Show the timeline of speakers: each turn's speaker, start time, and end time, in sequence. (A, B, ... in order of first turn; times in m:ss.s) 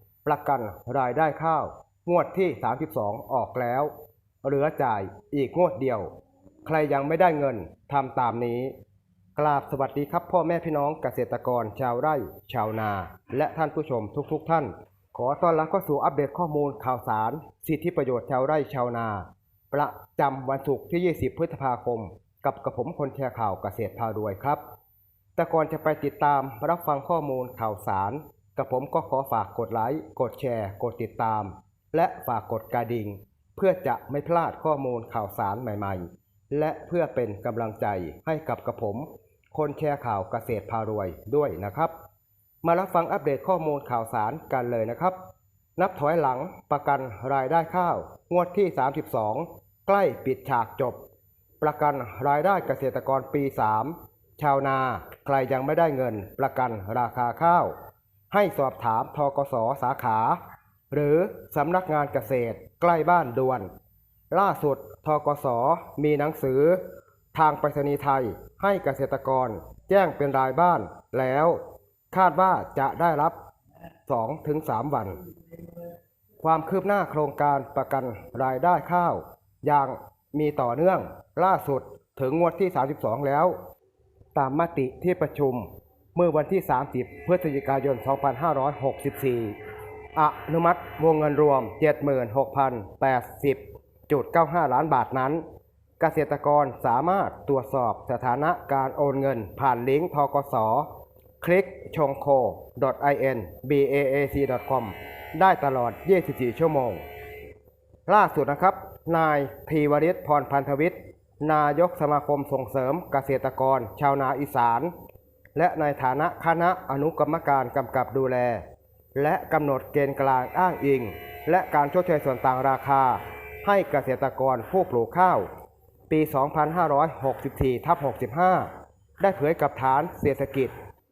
0:00.2-0:03.9 A
0:04.4-0:06.1 A
0:06.6-0:08.7 A
0:09.4-0:24.6 A
0:25.4-0:41.9 A
0:42.6-0:45.2 A
0:45.8-0:51.0 A
0:51.6-0:57.7 A
0:58.3-1:00.4 A
1:00.9-1:03.7 A
1:04.3-1:06.8 A
1:07.3-1:11.6 A
1:12.1-1:13.4 A
1:14.1-1:15.2 A
1:16.4-1:23.5 A
1:24.4-1:29.6 A
1:30.1-1:35.4 A
1:36.0-1:40.9 A
1:41.4-1:47.0 A
1:48.1-1:54.9 A
1:55.6-1:58.6 A
1:59.2-2:05.5 A
2:06.1-2:10.7 A